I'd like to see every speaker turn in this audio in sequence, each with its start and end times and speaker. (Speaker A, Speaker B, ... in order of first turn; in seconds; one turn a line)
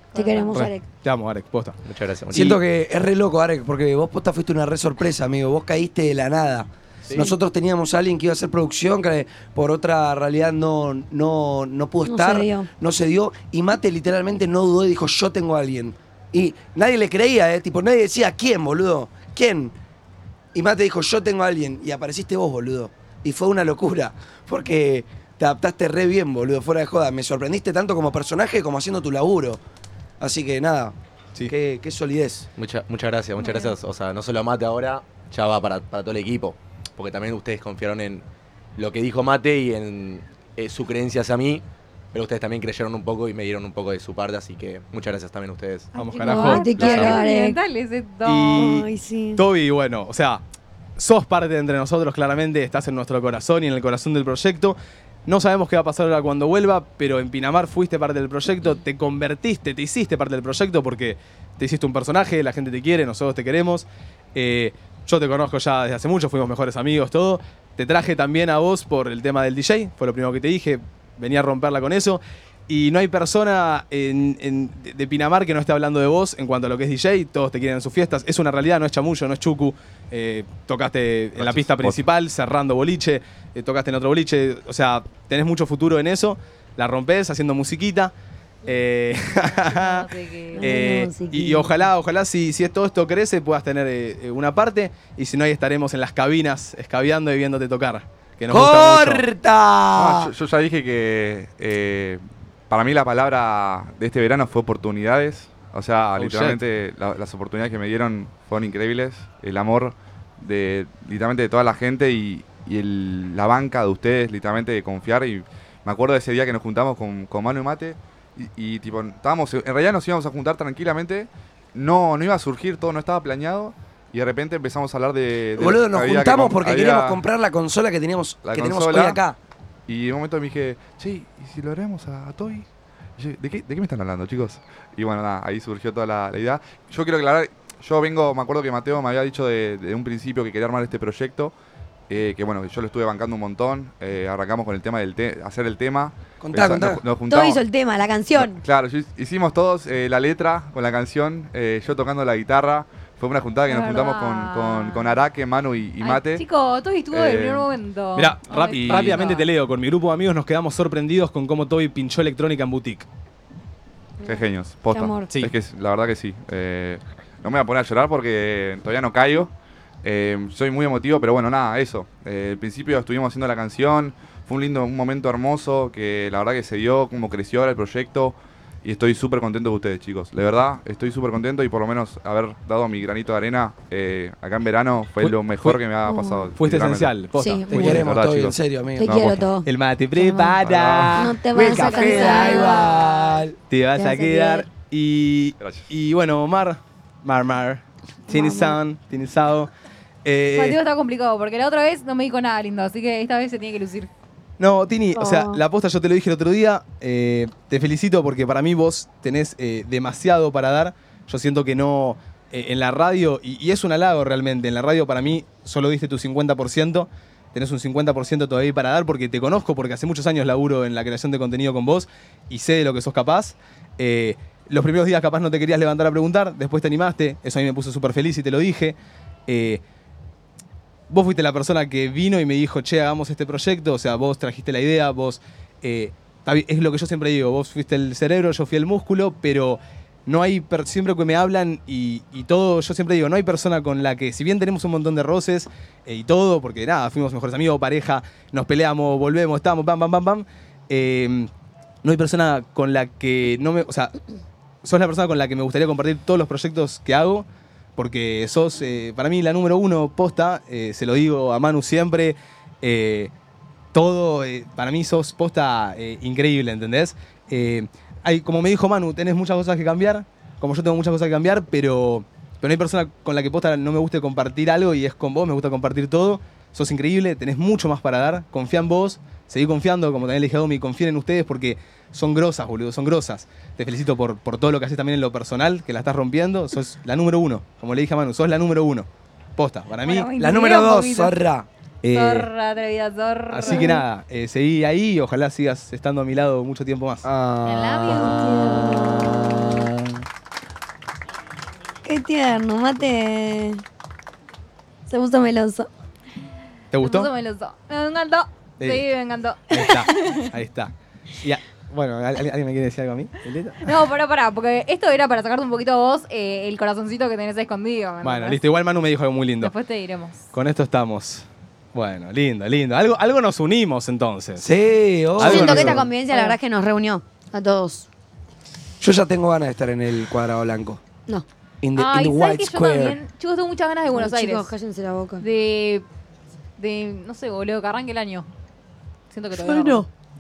Speaker A: 0.1-0.6
Speaker B: 0.1-0.8
Speaker C: 0.5-1.8
Speaker D: 1.9-2.6
Speaker E: 2.3-19.8
Speaker D: 7.1-7.3
Speaker B: 12.1-12.7
Speaker E: 20.5-29.6
Speaker E: 30.2-30.9
Speaker E: 31.5-32.5
Speaker D: 32.6-38.2
Speaker A: 33.4-33.7
Speaker D: 38.8-45.9
Speaker A: 46.0-48.6
Speaker C: 46.0-46.7
Speaker B: 46.3-47.6
Speaker D: 46.9-47.2
Speaker C: 48.2-50.4
Speaker B: 48.5-49.4
Speaker C: 51.0-88.1
Speaker F: 81.4-82.0
Speaker C: 88.7-90.1
Speaker A: 89.3-90.8
Speaker B: 90.5-91.8
Speaker C: 90.6-99.2
Speaker E: 98.5-100.3
Speaker F: 100.0-127.2
Speaker C: 106.2-106.6
Speaker E: 125.6-129.4
Speaker F: 128.4-129.2
Speaker F: 129.9-132.7
Speaker F: 133.2-141.5
Speaker F: 142.1-147.6
Speaker E: 146.4-147.0
Speaker B: 147.3-148.6
Speaker F: 148.4-156.4
Speaker A: 153.7-155.2
Speaker A: 156.0-159.5
Speaker F: 157.1-157.7
Speaker C: 158.2-163.1
Speaker F: 158.9-159.3
Speaker B: 164.2-165.3
Speaker F: 164.2-169.5
Speaker F: 170.0-187.2
Speaker C: 185.2-185.8
Speaker B: 186.1-186.5
Speaker C: 186.6-188.1
Speaker B: 187.4-187.7
Speaker E: 187.7-189.2
Speaker F: 187.7-189.4
Speaker B: 189.0-189.7
Speaker C: 189.6-191.4
Speaker B: 190.2-190.6
Speaker F: 190.6-191.3
Speaker B: 191.2-193.0
Speaker E: 191.5-193.6
Speaker A: 191.7-193.4
Speaker C: 193.7-199.7
Speaker B: 194.0-194.7
Speaker B: 198.3-198.8
Speaker C: 200.2-200.8
Speaker A: 200.6-204.1
Speaker C: 204.6-229.0
Speaker B: 205.1-205.6
Speaker C: 229.5-229.8
Speaker C: 231.1-251.5
Speaker C: 252.0-254.1
Speaker C: 254.8-257.5
Speaker C: 258.0-263.3
Speaker C: 263.9-290.3
Speaker A: 290.0-291.4
Speaker E: 290.4-291.7
Speaker C: 292.0-292.5
Speaker A: 292.1-294.0
Speaker C: 293.5-297.3
Speaker B: 293.7-293.9
Speaker E: 297.2-298.6
Speaker A: 297.6-298.4
Speaker B: 298.1-299.5
Speaker B: 302.0-303.8
Speaker B: 305.1-305.9
Speaker C: 306.9-307.3
Speaker A: 307.0-310.5
Speaker C: 308.8-309.1
Speaker C: 309.7-313.9
Speaker A: 313.8-318.6
Speaker C: 318.2-319.7
Speaker A: 319.6-320.5
Speaker C: 320.5-324.7
Speaker E: 324.6-326.0
Speaker C: 325.4-326.1
Speaker B: 325.4-328.1
Speaker A: 326.3-326.6
Speaker E: 329.0-331.0
Speaker E: 331.8-333.2
Speaker A: 331.9-334.7
Speaker B: 334.1-335.4
Speaker A: 335.4-336.1
Speaker A: 336.8-338.5
Speaker A: 339.3-340.1
Speaker B: 339.6-340.1